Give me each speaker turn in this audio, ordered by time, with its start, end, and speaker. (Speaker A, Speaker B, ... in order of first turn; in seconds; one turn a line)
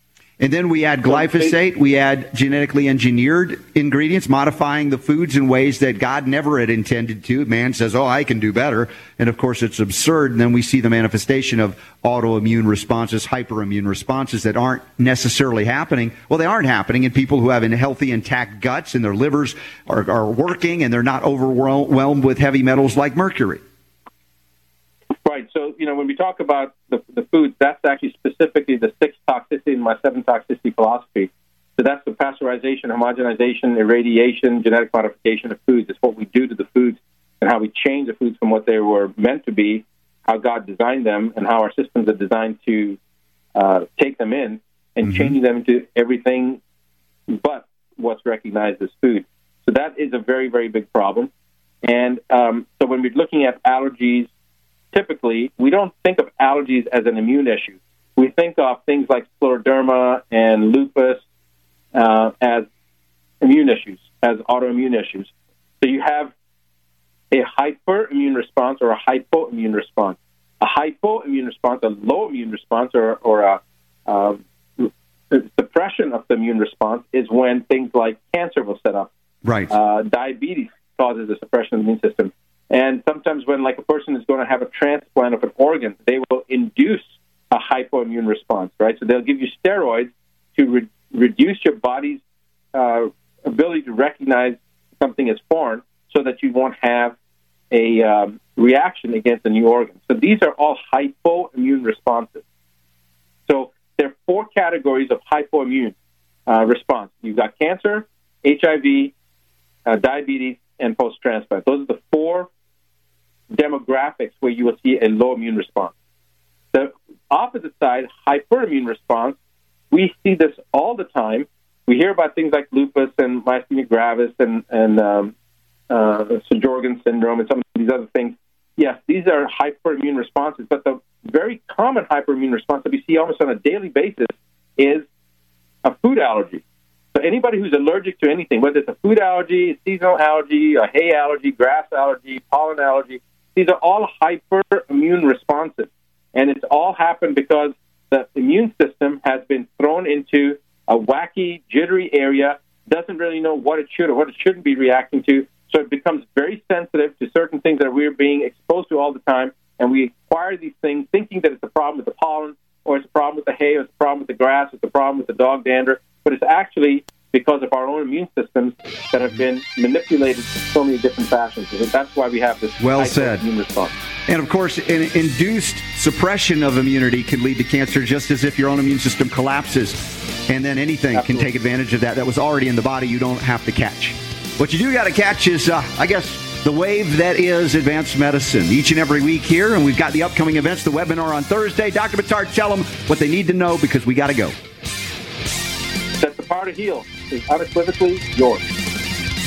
Speaker A: 0.4-23.6
Speaker B: 1.1-1.5
Speaker B: 25.2-43.0
Speaker B: 43.5-46.6
Speaker A: 45.0-45.3
Speaker B: 47.3-51.3
Speaker B: 51.8-54.3
Speaker B: 54.9-61.2
Speaker B: 61.9-62.6
Speaker B: 63.4-66.3
Speaker B: 67.3-79.1
Speaker A: 79.4-79.7
Speaker B: 79.7-92.2
Speaker B: 92.7-97.2
Speaker B: 97.7-102.4
Speaker B: 103.5-105.9
Speaker B: 106.5-109.1
Speaker B: 109.8-112.5
Speaker B: 113.5-115.9
Speaker B: 116.7-119.4
Speaker B: 119.9-125.3
Speaker B: 125.9-135.0
Speaker B: 135.8-136.6
Speaker B: 137.1-173.9
Speaker A: 172.8-173.4
Speaker A: 174.3-194.5
Speaker B: 181.1-181.4
Speaker B: 196.2-198.6